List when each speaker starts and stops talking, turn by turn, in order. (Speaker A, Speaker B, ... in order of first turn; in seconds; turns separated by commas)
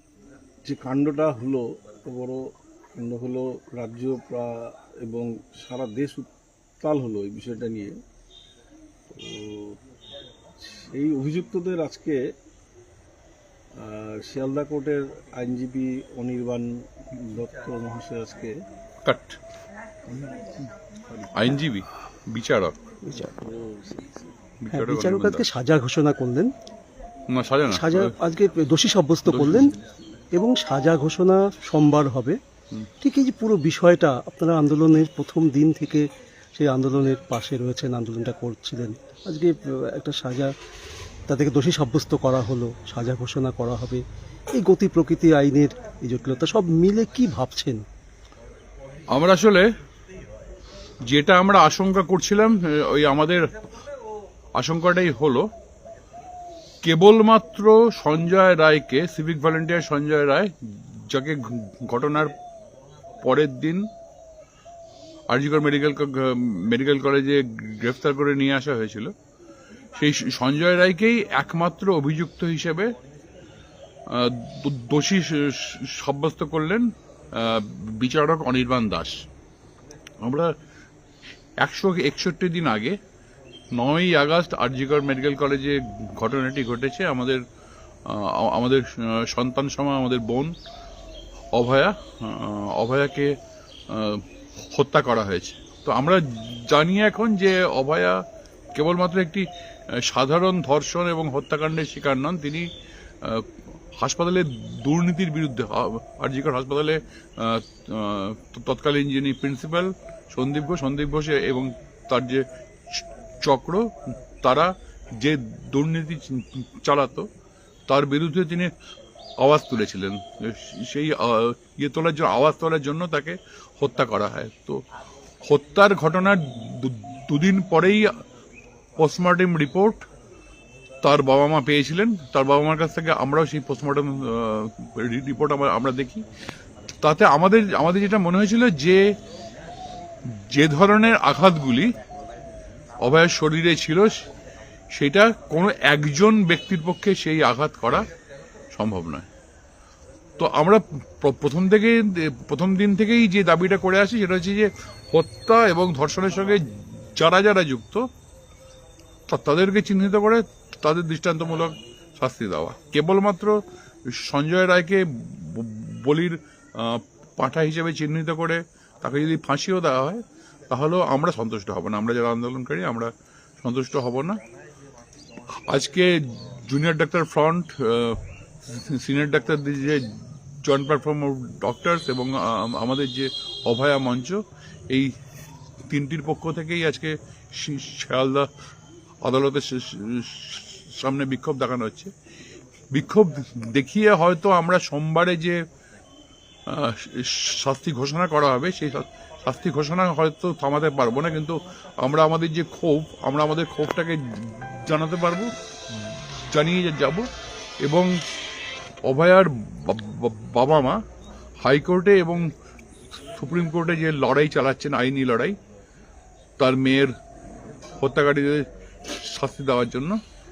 Speaker A: 0.6-6.3, Speaker A: 6.8-8.0, Speaker A: 9.1-9.8, Speaker A: 10.6-12.2, Speaker A: 13.8-18.6, Speaker B: 19.0-19.4, Speaker B: 21.3-22.7, Speaker A: 23.4-24.3, Speaker B: 24.6-25.5, Speaker C: 24.7-26.5, Speaker B: 27.3-28.1, Speaker C: 27.7-29.7, Speaker B: 29.3-29.6, Speaker C: 30.4-32.4, Speaker C: 33.0-40.5, Speaker C: 41.3-47.8, Speaker B: 49.1-49.7, Speaker B: 51.0-53.5, Speaker B: 54.5-55.5, Speaker B: 56.8-62.4, Speaker B: 63.2-63.9, Speaker B: 65.3-69.1, Speaker B: 69.9-73.0, Speaker B: 74.1-79.2, Speaker B: 80.2-80.5, Speaker B: 81.6-83.0, Speaker B: 83.7-87.4, Speaker B: 88.0-90.5, Speaker B: 91.5-93.4, Speaker B: 93.9-98.2, Speaker B: 98.7-102.7, Speaker B: 103.2-117.3, Speaker B: 117.9-118.7, Speaker B: 119.4-124.8, Speaker B: 125.4-128.1, Speaker B: 129.0-130.0, Speaker B: 131.0-136.2, Speaker B: 137.0-139.0, Speaker B: 140.3-141.9, Speaker B: 143.0-144.2, Speaker B: 144.9-148.1, Speaker B: 148.7-149.3, Speaker B: 150.4-158.1, Speaker B: 159.3-173.1, Speaker B: 173.6-174.4, Speaker B: 175.5-185.1, Speaker B: 185.9-188.5, Speaker B: 189.2-192.1, Speaker B: 192.9-195.6, Speaker B: 196.7-207.3, Speaker B: 207.8-208.2, Speaker B: 209.0-211.0, Speaker B: 211.6-212.5, Speaker B: 213.1-215.6, Speaker B: 216.6-217.1, Speaker B: 218.0-220.2